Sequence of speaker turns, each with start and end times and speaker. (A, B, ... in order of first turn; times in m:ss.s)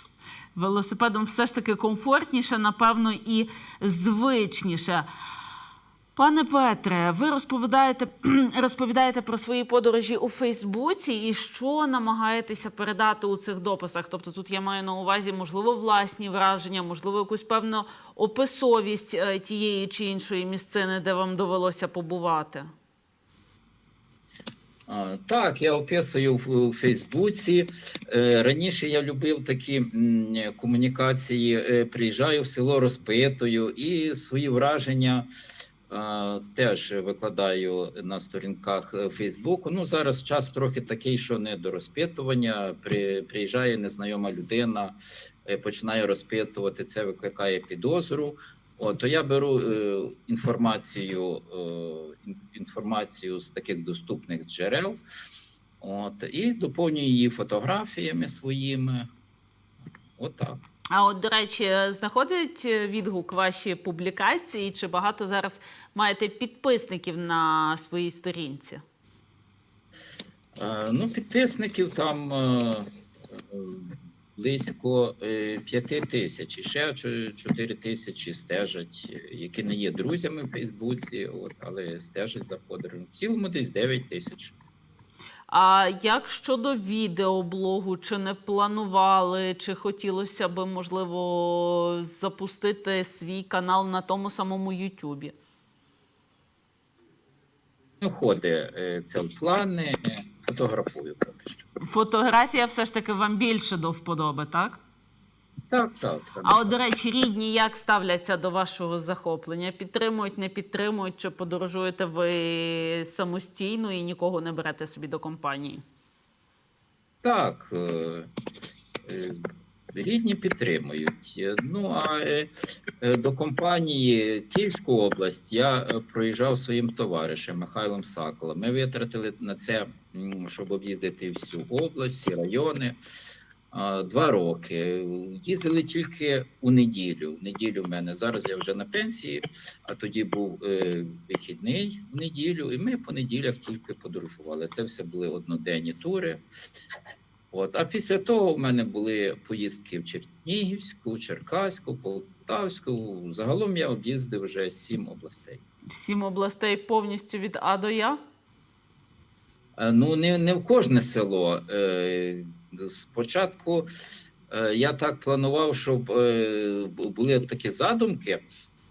0:00.6-0:05.0 A
0:06.2-0:22.7 A
0:24.9-0:35.3 B
0:35.9-0:55.0 B
0:55.8-0:59.1 B
1:00.2-1:00.6 B
1:00.9-1:08.8 A
1:10.6-1:24.6 B
1:25.5-1:35.3 A
1:38.0-1:41.7 B
1:41.8-1:44.8 A
1:45.7-1:46.7 B
1:46.4-1:55.8 A
1:57.2-1:58.3 B
1:59.0-1:59.4 B
1:59.9-2:13.0 B
2:13.7-2:26.4 B
2:27.5-2:35.6 B
2:35.9-2:38.2 A
2:39.8-2:43.9 B
2:44.5-2:48.4 B